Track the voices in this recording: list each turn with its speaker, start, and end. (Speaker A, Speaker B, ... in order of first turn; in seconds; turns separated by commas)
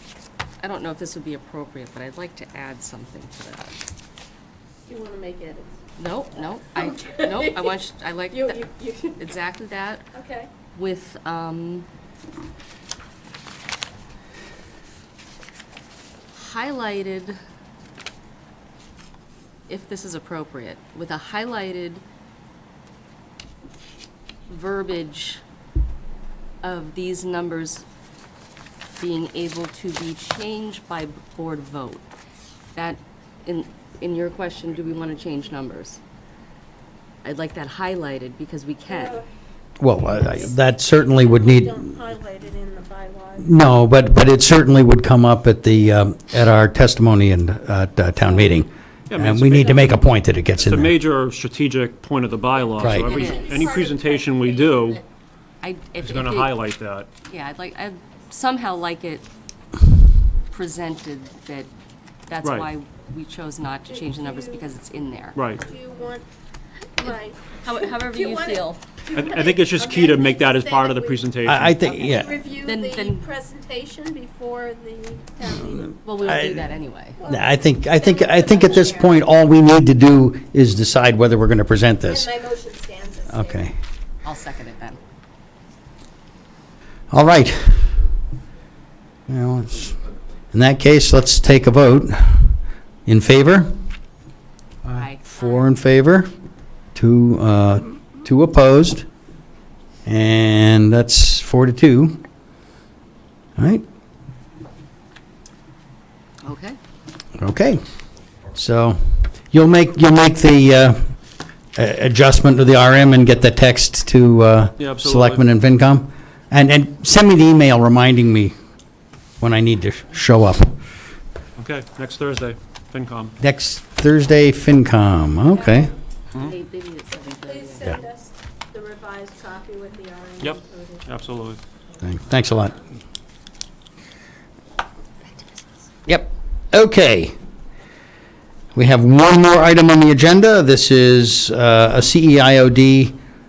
Speaker A: 0.6-3.8, Speaker B: 4.9-5.8, Speaker A: 6.0-10.1, Speaker B: 6.8-9.2, Speaker B: 10.1-10.5, Speaker A: 10.8-11.9, Speaker A: 16.3-17.4, Speaker A: 19.7-22.0, Speaker A: 24.5-25.4, Speaker A: 26.6-27.9, Speaker A: 28.9-32.1, Speaker A: 32.8-36.0, Speaker A: 37.2-39.2, Speaker B: 38.9-39.3, Speaker C: 39.8-41.9, Speaker B: 40.1-43.5, Speaker C: 43.4-50.9, Speaker A: 48.2-48.5, Speaker D: 49.1-50.0, Speaker D: 50.6-55.0, Speaker C: 52.8-53.2, Speaker B: 53.0-55.0, Speaker A: 53.0-53.8, Speaker A: 55.6-56.6, Speaker D: 56.0-57.1, Speaker A: 57.3-59.3, Speaker A: 60.5-61.7, Speaker A: 62.3-65.4, Speaker D: 62.4-62.7, Speaker B: 63.9-64.7, Speaker D: 65.3-65.6, Speaker B: 65.5-66.3, Speaker B: 67.0-71.3, Speaker A: 67.0-68.8, Speaker D: 69.1-71.8, Speaker C: 71.5-72.4, Speaker B: 71.9-76.0, Speaker A: 72.1-73.3, Speaker A: 76.0-77.2, Speaker C: 76.2-76.6, Speaker B: 77.2-79.2, Speaker C: 77.2-82.3, Speaker B: 82.1-83.7, Speaker C: 83.3-83.7, Speaker A: 84.2-85.0, Speaker C: 87.1-88.0, Speaker C: 89.3-90.0, Speaker C: 90.5-93.7, Speaker A: 94.9-95.7, Speaker C: 95.3-96.3, Speaker C: 97.0-99.0, Speaker C: 100.0-102.2, Speaker C: 103.6-103.8, Speaker A: 106.4-106.8, Speaker C: 107.4-107.8, Speaker C: 108.5-111.1, Speaker C: 111.8-118.5, Speaker D: 114.8-115.4, Speaker C: 119.4-120.8, Speaker D: 121.6-123.3, Speaker C: 123.4-125.9, Speaker B: 125.5-126.0, Speaker A: 126.3-128.0, Speaker B: 127.1-131.1, Speaker D: 130.4-131.6, Speaker C: 132.0-132.8, Speaker C: 136.1-137.3, Speaker C: 138.8-143.2